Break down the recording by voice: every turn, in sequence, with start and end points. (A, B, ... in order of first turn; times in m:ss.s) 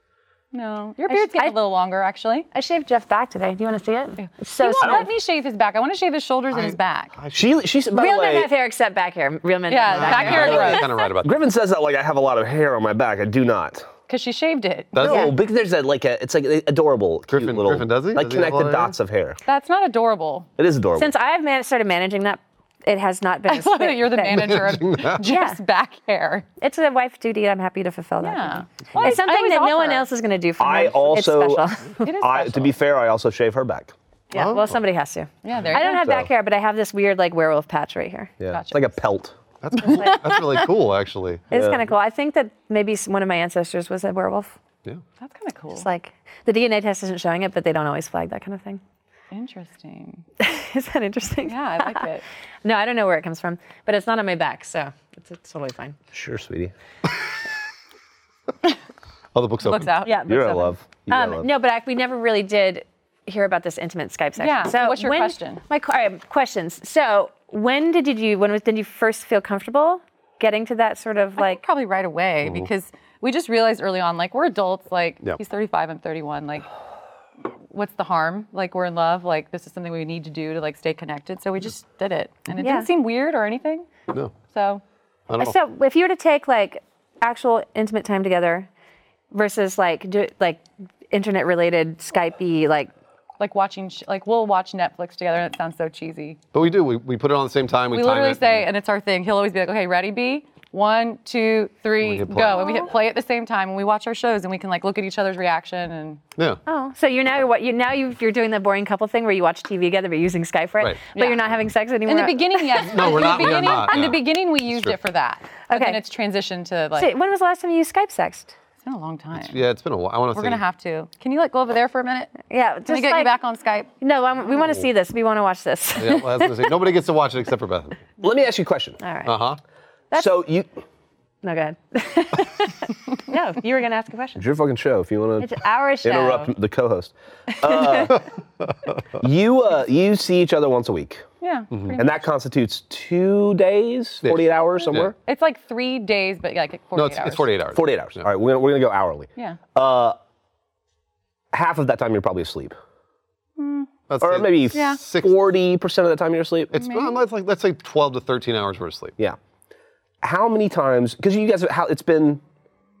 0:00.5-0:02.5 A
0:01.1-0:01.6 B
0:02.5-0:05.1 B
0:04.2-0:07.1 A
0:04.8-0:05.1 C
0:06.5-0:07.6 D
0:07.3-0:08.5 C
0:07.9-0:10.8 B
0:09.7-0:10.9 A
0:09.9-0:11.4 D
0:10.2-0:13.9 C
0:14.1-0:15.2 A
0:14.9-0:15.3 D
0:15.0-0:19.4 C
0:15.0-0:15.3 B
0:17.3-0:19.0 D
0:19.4-0:20.5 A
0:20.6-0:21.1 C
0:21.0-0:24.6 B
0:23.5-0:26.4 A
0:24.3-0:25.2 D
0:25.2-0:25.6 B
0:26.6-0:32.2 B
0:28.2-0:30.1 A
0:28.9-0:29.2 D
0:30.6-0:33.9 C
0:32.0-0:32.7 A
0:34.3-0:38.3 B
0:34.3-0:34.8 D
0:35.4-0:36.1 A
0:35.9-0:36.3 C
0:38.4-0:39.4 C
0:38.5-0:38.9 A
0:39.6-0:41.5 D
0:39.9-0:40.2 B
0:41.5-0:44.5 B
0:41.5-0:41.9 C
0:45.2-0:45.8 A
0:45.8-0:48.8 B
0:49.3-0:50.2 A
0:50.4-0:52.1 B
0:51.4-0:52.2 A
0:52.6-0:56.0 B
0:56.1-0:56.7 C
0:59.3-1:00.0 D
0:59.6-1:00.5 A
1:00.0-1:11.6 B
1:00.3-1:01.5 C
1:04.4-1:05.6 A
1:11.4-1:16.6 A
1:17.7-1:23.9 A
1:22.6-1:22.9 B
1:24.5-1:24.8 A
1:25.3-1:25.6 D
1:25.4-1:28.7 B
1:29.3-1:32.9 B
1:33.4-1:36.4 A
1:36.5-1:38.6 D
1:37.9-1:46.2 A
1:42.0-1:42.8 D
1:42.6-1:42.8 B
1:46.6-1:53.7 B
1:51.1-1:51.4 A
1:52.0-1:57.1 A
1:52.8-1:54.9 D
1:55.7-1:56.0 B
1:57.0-1:58.5 B
1:58.8-1:59.6 A
1:59.3-2:00.6 D
2:00.3-2:03.9 A
2:02.5-2:03.3 B
2:04.0-2:06.7 B
2:06.0-2:08.0 D
2:08.2-2:09.0 C
2:09.0-2:09.3 B
2:09.2-2:09.6 D
2:10.1-2:10.7 C
2:11.4-2:14.4 B
2:14.4-2:18.2 C
2:15.4-2:16.5 B
2:17.6-2:18.2 B
2:19.2-2:21.2 C
2:21.4-2:22.1 A
2:22.0-2:25.1 C
2:24.2-2:25.1 D
2:25.2-2:27.5 A
2:27.0-2:28.2 D
2:27.7-2:30.2 C
2:31.5-2:32.8 C
2:33.6-2:33.9 A
2:34.1-2:35.4 D
2:34.2-2:36.7 C
2:34.7-2:35.0 A
2:36.7-2:39.1 D
2:36.8-2:37.2 A
2:40.2-2:42.4 C